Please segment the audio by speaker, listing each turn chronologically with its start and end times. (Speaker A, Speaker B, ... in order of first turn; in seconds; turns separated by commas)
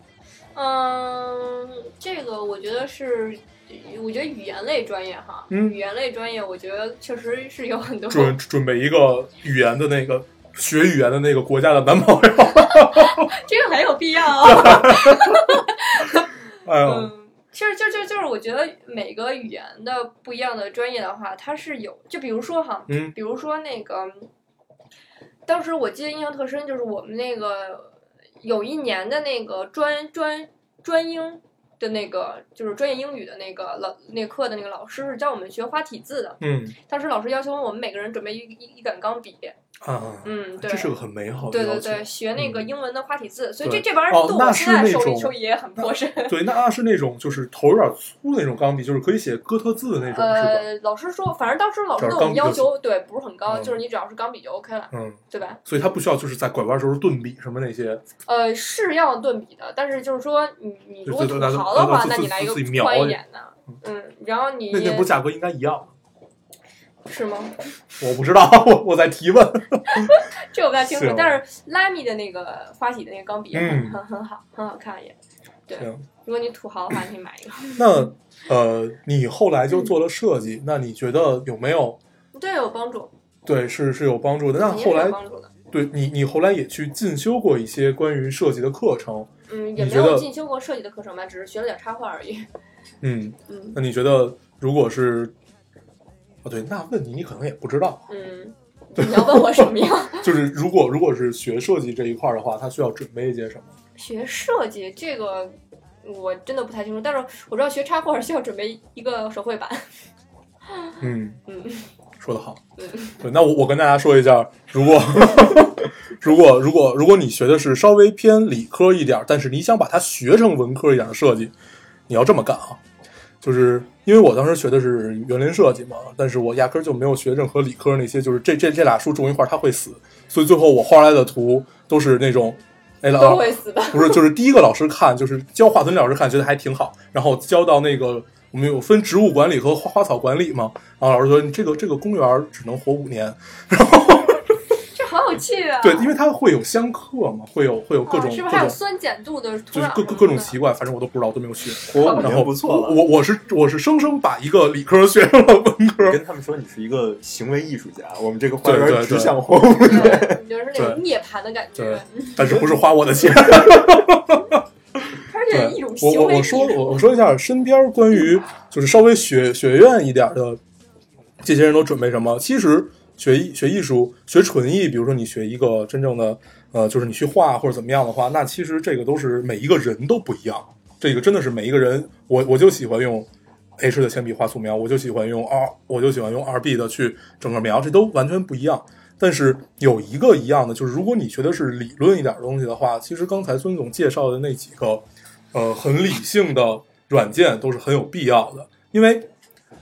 Speaker A: 0.6-8.4, Speaker B: 5.5-5.8, Speaker B: 8.1-13.3, Speaker A: 12.7-24.3, Speaker B: 14.3-15.6, Speaker B: 16.6-17.1, Speaker B: 22.9-23.1, Speaker A: 25.5-39.5, Speaker B: 36.4-36.8, Speaker B: 39.8-42.7, Speaker A: 40.2-40.9, Speaker A: 41.5-46.5, Speaker B: 43.6-50.6, Speaker A: 50.1-55.6, Speaker B: 52.0-52.7, Speaker B: 53.5-53.8, Speaker B: 54.9-58.0, Speaker A: 58.3-65.1, Speaker B: 61.0-63.2, Speaker B: 64.7-65.9, Speaker A: 67.0-67.5, Speaker B: 68.0-70.2, Speaker A: 69.9-75.2, Speaker B: 70.8-71.4, Speaker B: 73.5-74.0, Speaker A: 75.7-78.1, Speaker B: 75.8-76.0, Speaker B: 77.8-82.0, Speaker A: 82.3-83.1, Speaker B: 83.5-85.2, Speaker A: 84.5-85.5, Speaker B: 85.7-90.3, Speaker A: 89.5-92.5, Speaker B: 93.0-95.3, Speaker A: 93.5-93.8, Speaker B: 96.4-98.0, Speaker A: 98.1-100.3, Speaker B: 99.0-103.7, Speaker A: 104.0-109.9, Speaker B: 111.0-111.4, Speaker A: 111.5-111.9, Speaker B: 112.2-112.6, Speaker A: 112.8-113.2, Speaker B: 113.1-121.5, Speaker B: 122.1-122.8, Speaker B: 123.4-144.5, Speaker A: 133.1-134.2, Speaker A: 144.9-146.1, Speaker B: 145.8-148.8, Speaker A: 148.1-150.6, Speaker B: 149.7-156.2, Speaker C: 151.9-153.0, Speaker A: 152.0-152.3, Speaker C: 156.0-160.4, Speaker B: 158.6-159.4, Speaker A: 159.8-162.7, Speaker B: 160.7-161.0, Speaker B: 161.8-164.6, Speaker A: 165.2-167.1, Speaker B: 165.5-170.6, Speaker B: 171.4-183.3, Speaker B: 183.8-199.3